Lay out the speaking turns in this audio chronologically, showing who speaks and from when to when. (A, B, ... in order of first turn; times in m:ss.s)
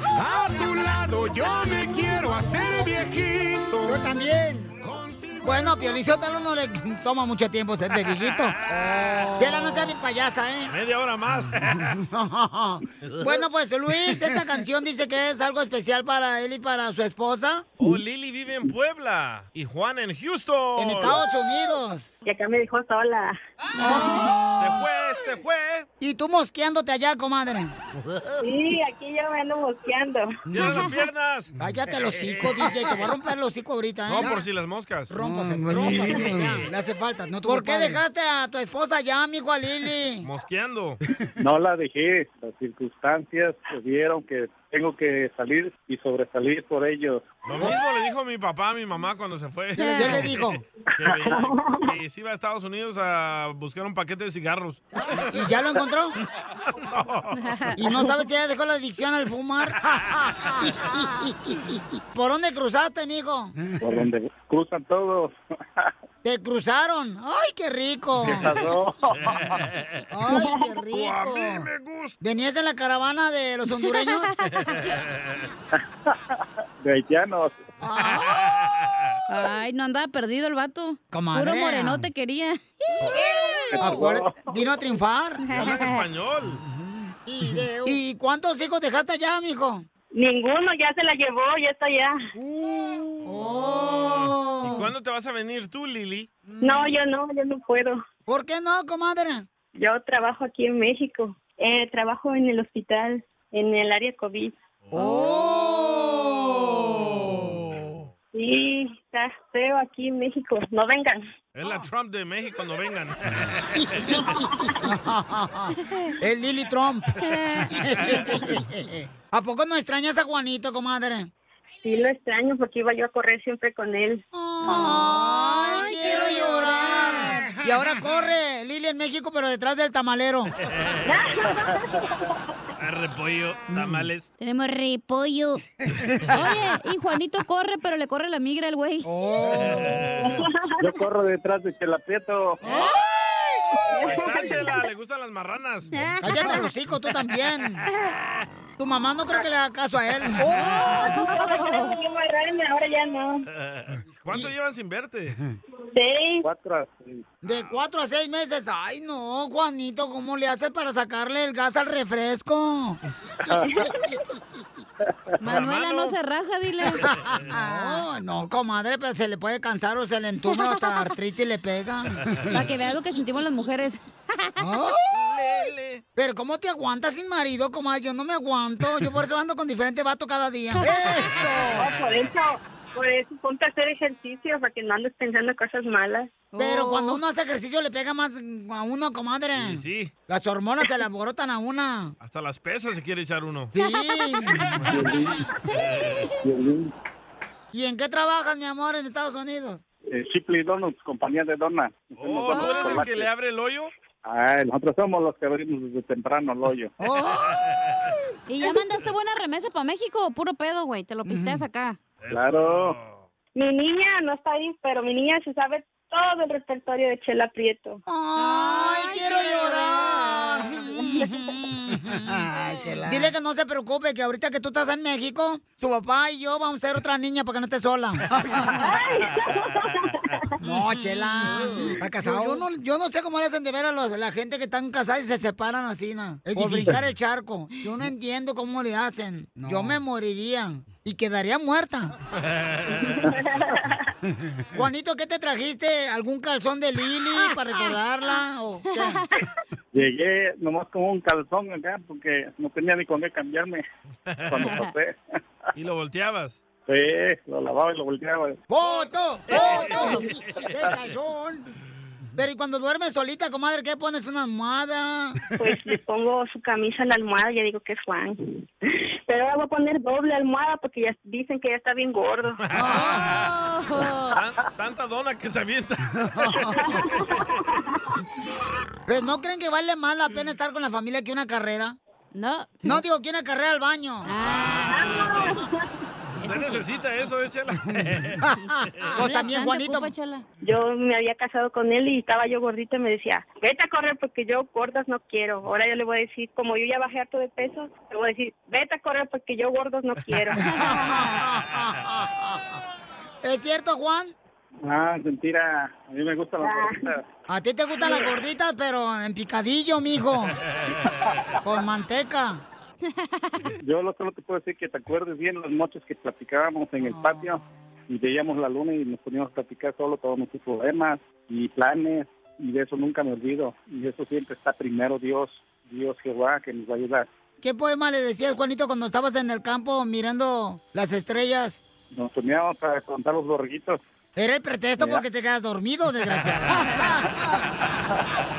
0:00.1-0:04.0 A
0:03.8-0:04.7 B
0:04.8-0:05.9 A
0:05.4-0:10.7 B
0:08.4-0:09.4 C
0:10.7-0:12.0 C
0:11.8-0:17.6 B
0:17.8-0:21.2 C
0:20.8-0:22.1 B
0:22.2-0:23.4 D
0:23.8-0:24.8 B
0:24.6-0:25.9 C
0:26.0-0:27.7 B
0:28.4-0:30.4 D
0:30.5-0:31.5 C
0:31.6-0:34.4 B
0:32.2-0:32.7 C
0:34.1-0:35.1 C
0:35.1-0:40.3 B
0:35.7-0:36.5 C
0:40.2-0:41.0 C
0:41.4-0:47.3 E
0:47.4-0:50.4 C
0:49.8-0:50.6 B
0:49.9-0:50.2 F
0:51.0-0:55.3 C
0:51.1-0:51.8 D
0:55.2-0:56.2 B
0:56.8-0:57.4 C
0:57.4-0:57.7 F
0:57.8-1:00.2 B
1:02.1-1:03.6 B
1:03.8-1:05.9 E
1:06.2-1:08.5 B
1:08.2-1:09.6 E
1:09.2-1:10.0 C
1:10.1-1:11.7 B
1:10.9-1:12.2 C
1:12.2-1:14.3 B
1:13.9-1:14.5 F
1:14.7-1:15.4 C
1:15.7-1:17.7 E
1:17.8-1:18.4 B
1:18.1-1:19.2 C
1:19.3-1:23.9 F
1:21.1-1:22.0 B
1:23.1-1:25.5 B
1:23.7-1:24.4 E
1:25.4-1:26.0 F
1:25.5-1:26.6 C
1:26.7-1:29.8 B
1:30.1-1:32.2 D
1:32.4-1:34.9 B
1:34.0-1:36.3 C
1:36.5-1:36.8 B
1:36.6-1:38.0 D
1:38.3-1:39.4 B
1:39.8-1:44.6 D
1:44.8-1:45.2 C
1:44.9-1:47.5 B
1:45.0-1:45.4 F
1:46.9-1:48.1 C
1:48.3-1:51.2 D
1:51.5-1:54.1 C
1:54.1-1:54.8 D
1:54.8-2:01.3 B
1:57.3-1:57.7 F
2:01.8-2:04.2 D
2:04.3-2:10.5 B
2:04.7-2:07.5 F
2:10.6-2:11.1 C
2:11.0-2:12.1 D
2:12.8-2:14.3 C
2:13.7-2:14.0 B
2:14.4-2:15.6 F
2:16.3-2:19.1 F
2:19.0-2:20.0 B
2:19.5-2:20.3 C
2:20.2-2:20.9 D
2:20.8-2:22.6 E
2:23.9-2:24.6 D
2:24.0-2:25.9 C
2:25.9-2:26.7 F
2:26.2-2:27.9 B
2:28.8-2:31.0 B
2:30.6-2:31.9 F
2:30.9-2:33.4 D
2:33.5-2:35.4 C
2:35.9-2:36.4 D
2:36.4-2:37.3 E
2:37.4-2:43.0 B
2:43.6-2:44.1 D
2:45.4-2:47.0 F
2:45.4-2:46.2 C
2:47.0-2:52.6 B
2:47.1-2:47.5 C
2:47.7-2:48.0 F
2:50.5-2:51.1 F
2:52.5-2:54.6 F
2:54.6-2:55.1 B
2:55.2-2:56.0 C
2:56.2-3:01.9 B
3:01.7-3:06.4 D
3:06.5-3:07.2 F
3:06.6-3:12.2 B
3:09.6-3:10.1 C
3:12.2-3:13.7 C
3:13.7-3:14.8 B
3:13.7-3:14.7 F
3:14.8-3:15.4 E
3:15.7-3:16.3 C
3:16.4-3:16.9 E
3:17.7-3:19.8 B
3:20.1-3:23.3 E
3:22.2-3:23.9 C
3:22.5-3:23.1 F
3:24.2-3:26.9 E
3:27.0-3:27.6 B
3:27.6-3:28.1 C
3:28.5-3:32.0 F
3:31.2-3:31.6 B
3:32.2-3:33.2 C
3:32.3-3:33.0 E
3:33.6-3:38.0 D
3:38.1-3:48.8 B
3:38.4-3:40.7 F
3:41.0-3:41.4 D
3:48.8-3:50.5 D
3:50.6-4:02.1 B
4:02.4-4:03.1 C
4:03.0-4:04.0 D
4:04.7-4:09.2 B
4:07.4-4:07.9 F
4:08.9-4:09.3 F
4:09.9-4:13.8 E
4:14.3-4:14.7 C
4:14.5-4:15.2 E
4:14.6-4:14.9 F
4:15.7-4:16.6 C
4:16.9-4:18.6 E
4:18.7-4:21.7 B
4:19.5-4:20.7 C
4:19.6-4:20.2 F
4:22.4-4:25.4 B
4:25.6-4:28.6 D
4:29.3-4:32.6 D
4:32.7-4:33.5 C
4:32.7-4:33.3 B
4:33.0-4:34.4 F
4:34.3-4:36.8 C
4:36.3-4:37.0 B
4:36.8-4:37.8 D
4:39.1-4:42.0 B
4:42.3-4:43.0 F
4:42.8-4:44.3 B
4:44.2-4:45.6 F
4:44.4-4:45.6 C
4:45.1-4:45.7 D
4:46.4-4:46.8 F
4:46.4-4:49.2 C
4:48.4-4:50.1 B
4:49.1-4:50.4 F
4:50.6-5:00.7 D
5:00.6-5:02.6 B
5:00.7-5:01.4 F
5:03.4-5:04.3 B
5:04.8-5:07.2 E
5:06.6-5:07.0 D
5:07.5-5:10.6 B
5:11.6-5:12.6 B
5:13.8-5:27.3 E
5:17.0-5:17.6 B
5:27.6-5:31.8 B
5:32.1-5:34.0 E
5:34.4-5:37.6 B